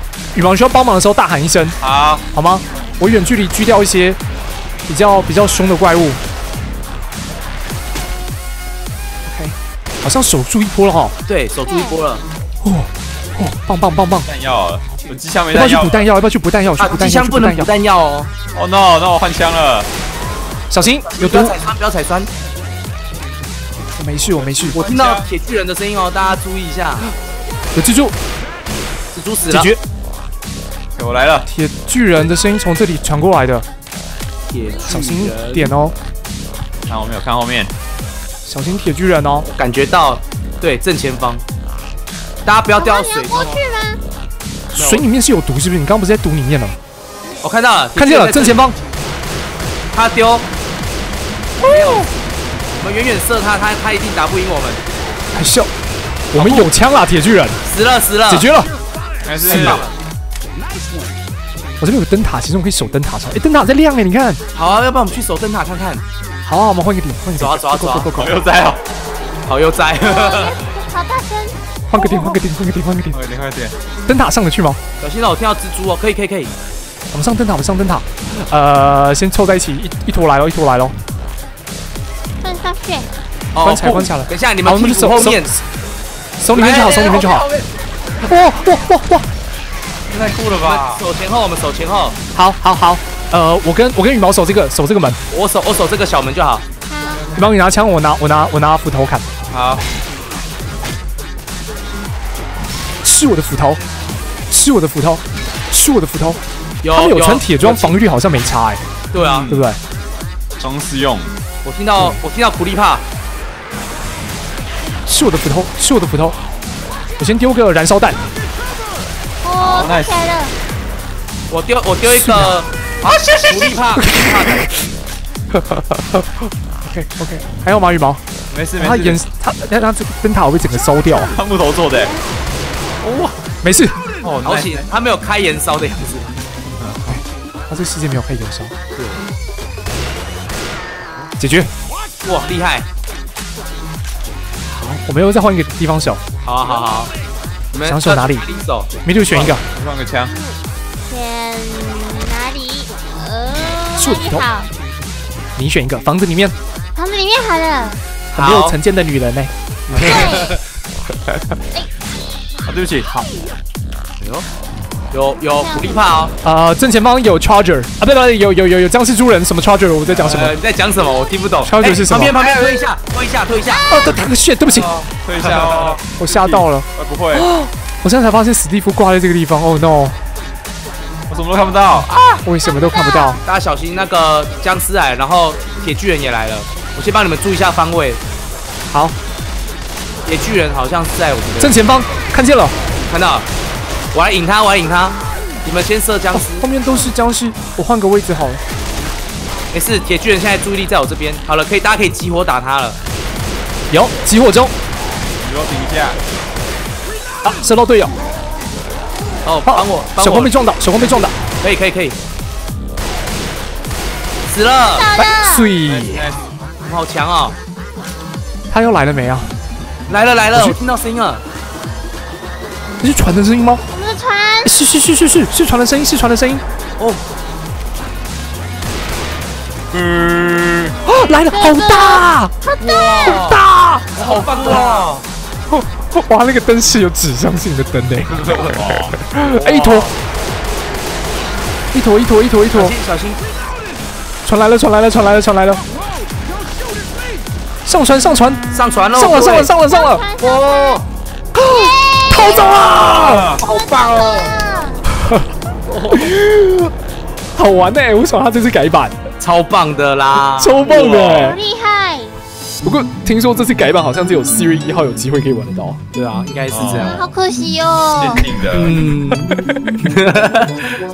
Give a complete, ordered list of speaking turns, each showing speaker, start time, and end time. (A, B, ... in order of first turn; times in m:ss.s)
0:00.3-0:01.8 A
0:01.8-0:02.2 B
0:02.3-0:04.2 A
0:04.9-0:06.2 A
0:09.2-0:11.2 A
0:11.3-0:12.2 C
0:11.6-0:12.0 D
0:12.6-0:14.3 A
0:14.2-0:16.1 B
0:15.5-0:17.7 A
0:16.8-0:18.3 C
0:18.5-0:19.9 B
0:20.7-0:21.6 A
0:21.0-0:22.3 C
0:23.9-0:24.8 A
0:24.3-0:25.3 B
0:24.7-0:27.1 C
0:27.7-0:28.2 A
0:29.1-0:29.7 C
0:29.5-0:29.8 A
0:31.0-0:31.5 B
0:31.4-0:33.6 A
0:34.5-0:35.7 C
0:34.8-0:35.9 A
0:36.9-0:37.7 B
0:38.4-0:39.5 A
0:39.5-0:41.4 C
0:42.4-0:43.6 C
0:42.7-0:44.0 D
0:44.7-0:45.0 C
0:44.7-0:46.8 A
0:47.4-0:48.7 C
0:48.0-0:48.8 A
0:49.9-0:50.5 C
0:51.6-0:52.1 A
0:51.6-0:52.1 C
0:52.7-0:54.8 C
0:55.3-0:55.7 A
0:56.3-0:57.6 A
0:56.3-0:56.7 C
0:57.6-0:58.5 C
0:58.3-0:58.7 A
0:59.2-0:59.9 B
0:59.4-0:59.9 C
0:59.5-0:59.8 A
1:01.8-1:04.4 A
1:04.5-1:06.0 C
1:06.4-1:08.4 A
1:07.4-1:08.1 C
1:08.1-1:08.8 B
1:09.4-1:10.6 C
1:10.0-1:12.4 D
1:11.9-1:13.2 A
1:13.1-1:13.7 B
1:14.1-1:14.8 A
1:15.0-1:16.5 C
1:17.1-1:20.9 A
1:22.4-1:23.1 D
1:23.5-1:25.5 C
1:23.6-1:25.6 A
1:26.4-1:27.5 A
1:26.5-1:27.6 C
1:28.2-1:29.2 A
1:30.1-1:31.0 B
1:30.6-1:32.2 C
1:32.3-1:35.2 A
1:35.3-1:36.6 C
1:36.9-1:37.2 D
1:37.1-1:37.5 B
1:37.3-1:39.3 A
1:39.5-1:39.8 B
1:43.0-1:43.8 A
1:44.5-1:46.4 A
1:46.8-1:47.9 C
1:46.9-1:48.8 A
1:49.1-1:49.5 C
1:49.1-1:49.6 B
1:49.5-1:49.8 A
1:50.6-1:51.3 B
1:51.6-1:53.0 C
1:55.1-1:56.4 A
1:57.2-1:58.2 A
1:59.4-2:00.5 D
1:59.6-2:00.2 B
2:01.5-2:04.8 C
2:02.0-2:02.6 A
2:03.3-2:04.8 A
2:05.5-2:08.2 A
2:08.5-2:09.2 B
2:08.8-2:11.3 A
2:11.0-2:12.1 B
2:13.0-2:13.3 C
2:13.6-2:14.0 A
2:14.2-2:14.9 B
2:14.4-2:16.4 C
2:16.8-2:17.2 B
2:17.0-2:18.7 A
2:18.9-2:19.2 C
2:21.4-2:21.7 A
2:22.2-2:22.8 C
2:24.7-2:26.2 A
2:26.4-2:27.1 C
2:27.7-2:28.9 C
2:27.8-2:28.4 A
2:29.0-2:29.6 A
2:29.2-2:30.3 B
2:30.3-2:34.7 D
2:34.0-2:34.5 A
2:35.6-2:36.5 A
2:36.9-2:38.0 D
2:38.3-2:40.5 A
2:38.4-2:38.8 C
2:39.9-2:40.6 C
2:40.0-2:40.6 D
2:42.6-2:43.1 B
2:43.0-2:43.3 A
2:44.2-2:44.4 C
2:45.1-2:46.3 C
2:45.6-2:46.0 D
2:46.4-2:50.6 A
2:50.1-2:50.4 B
2:50.2-2:54.0 C
2:51.6-2:52.4 A
2:52.4-2:52.8 B
2:53.9-2:54.9 A
2:54.7-2:57.5 B
2:55.4-2:56.0 C
2:56.2-3:00.2 A
3:01.3-3:02.1 B
3:02.1-3:02.4 C
3:02.4-3:03.4 A
3:02.6-3:03.4 D
3:03.4-3:08.2 C
3:08.9-3:09.1 A
3:10.2-3:11.8 C
3:11.6-3:12.7 A
3:13.1-3:13.5 C
3:14.1-3:16.7 C
3:16.3-3:18.6 A
3:19.7-3:23.0 C
3:23.9-3:24.7 A
3:25.4-3:26.2 B
3:27.4-3:28.1 A
3:29.4-3:32.2 C
3:29.6-3:31.4 A
3:34.5-3:35.1 C
3:34.9-3:35.7 D
3:35.2-3:36.3 A
3:35.8-3:36.6 B
3:36.8-3:37.5 C
3:38.7-3:39.5 A
3:40.1-3:41.4 C
3:43.0-3:43.8 A
3:43.9-3:44.7 D
3:44.6-3:46.6 A
3:49.9-3:50.9 B
3:51.0-3:52.5 A
3:51.5-3:53.5 D
3:52.8-3:53.6 C
3:53.2-3:54.8 A
3:54.2-3:55.2 C
3:54.4-3:55.2 B
3:55.7-4:00.1 A
3:58.4-4:00.1 B
4:01.9-4:02.9 A
4:02.7-4:03.4 C
4:04.4-4:05.8 A
4:07.8-4:10.2 A
4:08.7-4:09.7 C
4:09.8-4:11.0 D
4:10.4-4:11.0 C
4:11.5-4:13.5 A
4:11.6-4:15.0 D
4:12.6-4:13.6 B
4:13.6-4:14.6 C
4:15.1-4:15.5 A
4:15.9-4:16.3 C
4:16.1-4:16.9 A
4:17.5-4:19.2 A
4:19.4-4:21.2 C
4:20.5-4:21.6 A
4:21.1-4:22.3 D
4:22.8-4:26.0 A
4:26.1-4:27.2 C
4:26.7-4:27.2 B
4:26.9-4:28.4 D
4:28.1-4:29.2 B
4:28.7-4:30.9 C
4:29.3-4:30.1 A